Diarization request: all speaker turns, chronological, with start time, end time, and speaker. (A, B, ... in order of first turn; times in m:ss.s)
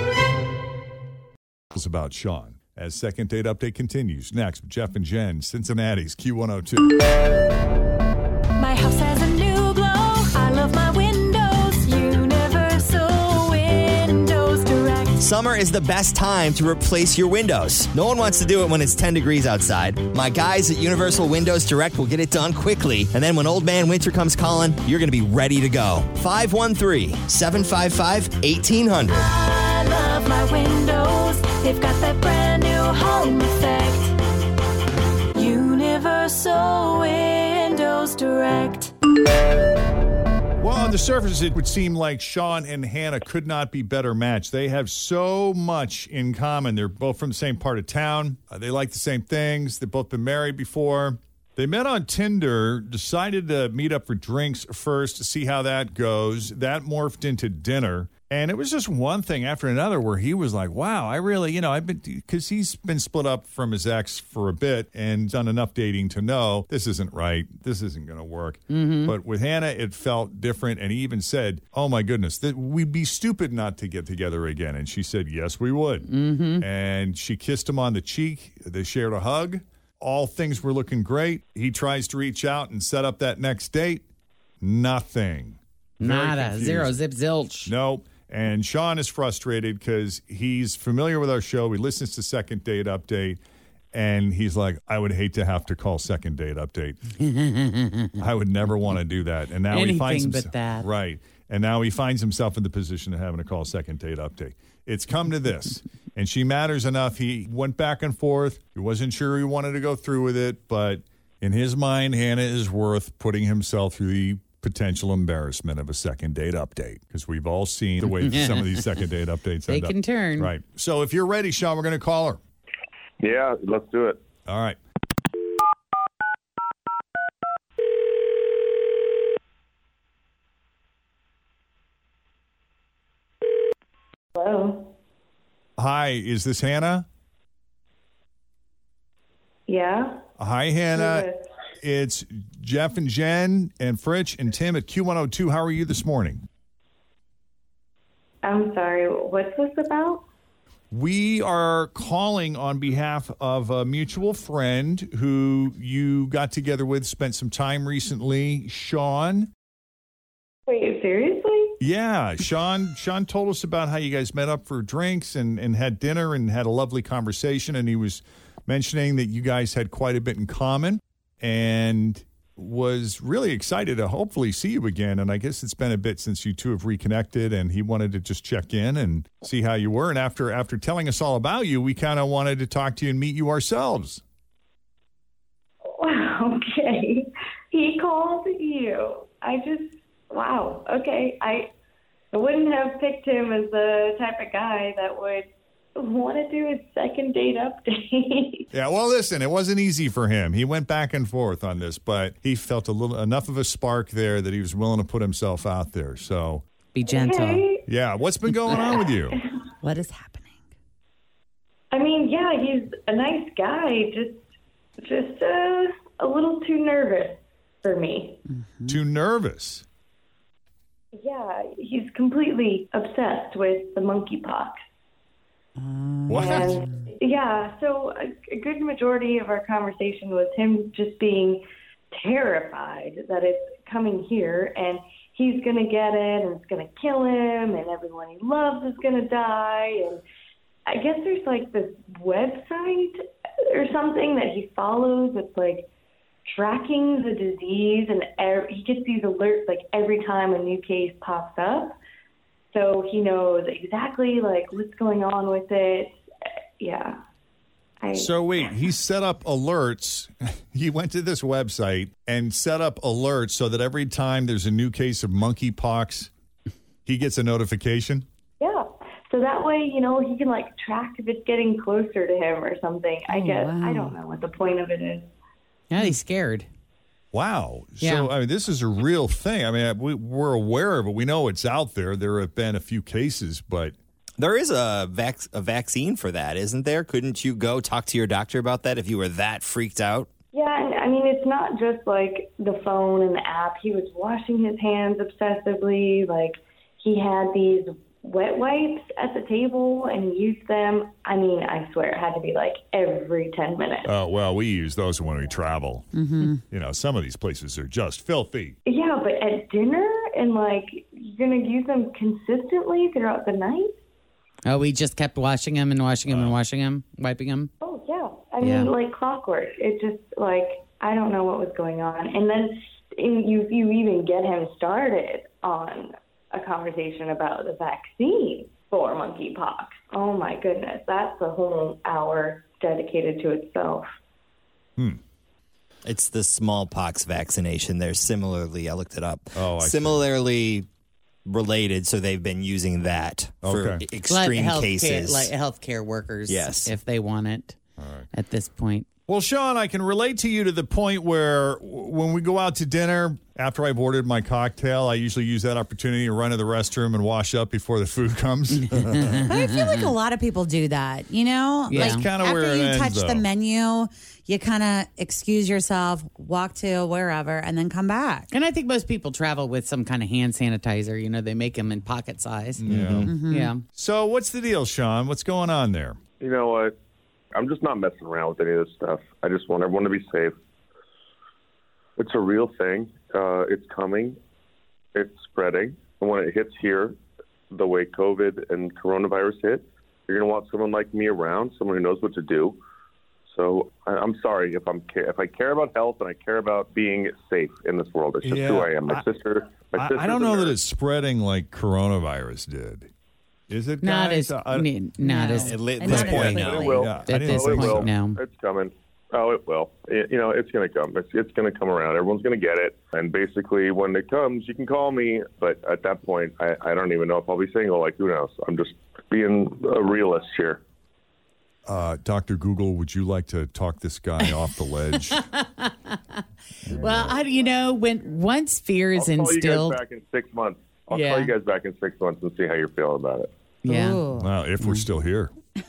0:01.7-0:06.9 A
0:08.6-0:15.2 B
0:15.2-0:29.3 C
0:29.1-0:34.2 B
0:35.3-0:38.9 B
0:40.6-1:16.0 A
1:08.7-1:09.1 D
1:16.0-1:16.7 D
1:16.6-1:24.0 A
1:24.6-1:26.9 A
1:26.0-1:27.7 D
1:27.7-1:33.4 A
1:33.9-1:37.0 A
1:37.2-1:38.1 D
1:38.2-2:02.4 A
1:39.7-1:40.9 D
1:58.0-1:58.9 D
1:59.6-2:00.5 D
2:03.2-2:04.2 E
2:04.5-2:04.8 A
2:14.3-2:14.9 F
2:15.8-2:17.0 A
2:19.7-2:20.2 F
2:20.4-2:21.3 A
2:20.9-2:21.4 F
2:21.8-2:26.4 A
2:28.4-2:30.2 F
2:30.9-2:39.5 A
2:40.7-2:41.7 F
2:41.8-3:04.2 A
3:06.0-3:11.7 F
3:12.3-3:18.6 F
3:18.7-3:26.6 A
3:26.9-3:27.7 D
3:27.0-3:27.8 F
3:27.8-3:29.4 A
3:28.7-3:29.0 F
3:29.8-3:30.6 G
3:31.9-3:34.4 F
3:35.0-3:38.4 F
3:38.5-3:39.0 G
3:38.8-3:39.8 A
3:41.1-3:44.8 F
3:45.8-3:46.6 G
3:46.3-3:46.8 A
3:46.4-4:00.2 F
4:00.9-4:03.2 F
4:03.7-4:05.9 F
4:06.5-4:12.0 F
4:12.7-4:16.2 F
4:16.8-4:17.2 F
4:18.0-4:18.4 F
4:18.1-4:26.3 A
4:27.0-4:28.2 A
4:28.6-4:35.3 F
4:33.3-4:34.1 G
4:35.9-4:36.7 D
4:37.3-4:43.9 A
4:38.0-4:38.3 D
4:44.4-4:50.3 C
4:50.5-5:04.1 F
5:04.0-5:06.1 A
5:06.1-5:06.6 G
5:06.7-5:08.8 A
5:08.8-5:14.0 F
5:14.7-5:17.7 D
5:16.3-5:16.6 A
5:17.8-5:34.1 F
5:18.6-5:18.9 D
5:36.0-5:40.9 C
5:39.5-5:40.3 A
5:41.4-5:45.5 C
5:43.6-5:44.0 A
5:44.3-5:47.8 D
5:46.5-5:46.9 C
5:48.0-5:48.3 A
5:48.3-5:49.1 D
5:49.3-5:59.2 A
5:58.8-5:59.7 D
5:59.4-6:08.5 G
6:01.9-6:02.3 D
6:01.9-6:03.5 A
6:08.5-6:12.8 D
6:12.8-6:13.3 A
6:12.8-6:13.3 C
6:13.2-6:13.7 G
6:13.5-6:13.8 D
6:13.9-6:16.2 A
6:16.4-6:16.9 E
6:17.5-6:20.6 E
6:22.2-6:24.4 E
6:25.1-6:27.2 E
6:27.7-6:32.8 E
6:33.5-6:40.8 E
6:38.4-6:39.3 A
6:39.9-6:43.1 A
6:43.7-6:44.9 A
6:44.0-6:46.6 D
6:45.2-6:47.1 G
6:45.6-6:47.0 C
6:46.0-6:48.2 A
6:46.6-7:00.8 E
6:47.2-6:48.4 D
7:01.8-7:05.4 A
7:05.3-7:06.2 D
7:06.8-7:07.4 A
7:06.9-7:10.0 D
7:09.1-7:13.5 E
7:11.1-7:11.5 D
7:13.8-7:14.2 D
7:13.8-7:14.5 G
7:14.4-7:15.5 A
7:14.8-7:15.0 D